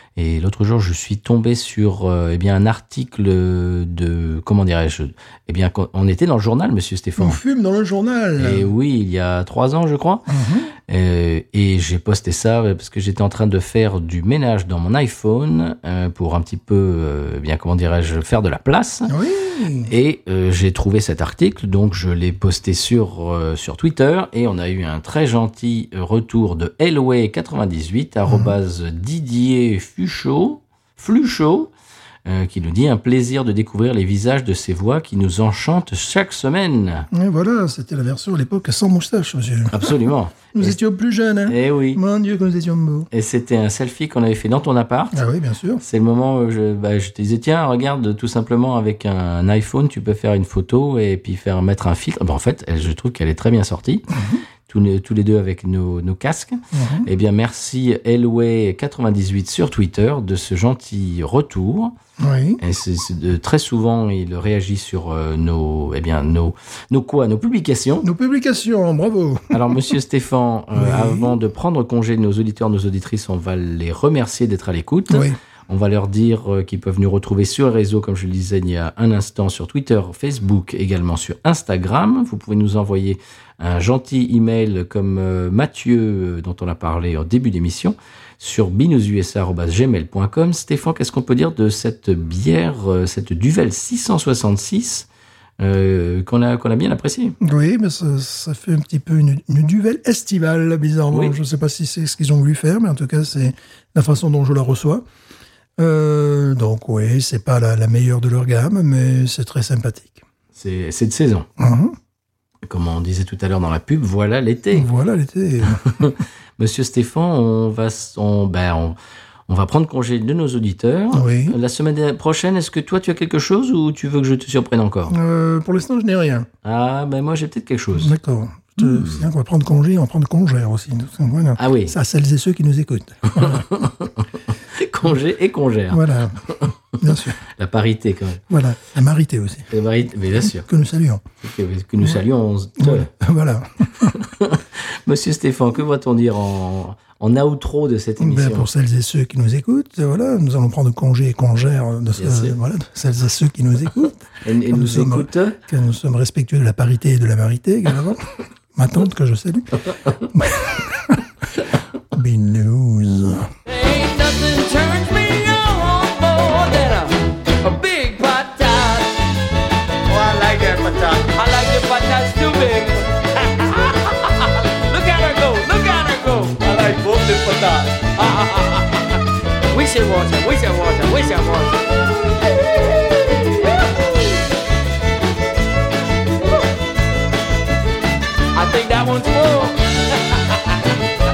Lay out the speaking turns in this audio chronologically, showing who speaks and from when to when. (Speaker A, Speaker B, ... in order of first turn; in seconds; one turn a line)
Speaker A: 0.2-7.4
Speaker B: 7.2-8.7
Speaker A: 8.4-10.3
Speaker B: 10.3-10.7
Speaker A: 10.9-19.1
Speaker B: 19.1-19.9
Speaker A: 19.9-31.7
Speaker B: 28.3-28.5
Speaker A: 32.3-37.1
Speaker B: 37.1-43.1
Speaker A: 39.7-40.8
Speaker A: 41.5-42.0
Speaker A: 43.1-45.2
Speaker B: 45.1-45.8
Speaker A: 45.8-61.9
Speaker B: 54.1-54.4
Speaker B: 56.7-57.1
Speaker B: 62.2-62.6
Speaker A: 62.6-68.1
Speaker B: 68.0-69.8
Speaker A: 69.5-95.1
Speaker B: 70.8-71.4
Speaker B: 75.1-75.4
Speaker A: 95.6-97.3
Speaker B: 97.4-105.0
Speaker B: 105.8-110.2
Speaker A: 110.5-111.5
Speaker B: 111.6-112.0
Speaker A: 112.7-114.9
Speaker B: 114.7-115.9
Speaker A: 115.7-119.0
Speaker A: 119.5-125.2
Speaker B: 121.1-121.6
Speaker B: 125.1-126.5
Speaker A: 126.6-128.1
Speaker B: 128.0-133.7
Speaker A: 128.8-129.2
Speaker A: 131.6-131.9
Speaker A: 133.3-136.8
Speaker B: 135.9-137.4
Speaker A: 137.4-138.4
Speaker B: 138.5-139.7
Speaker A: 139.7-140.7
Speaker B: 140.4-141.2
Speaker A: 141.4-143.1
Speaker B: 142.8-144.2
Speaker A: 144.1-148.7
Speaker B: 148.2-161.3
Speaker A: 152.2-152.5
Speaker A: 154.4-155.6
Speaker B: 162.1-163.5
Speaker C: 163.7-169.2
Speaker C: 170.1-184.4
Speaker C: 188.5-190.8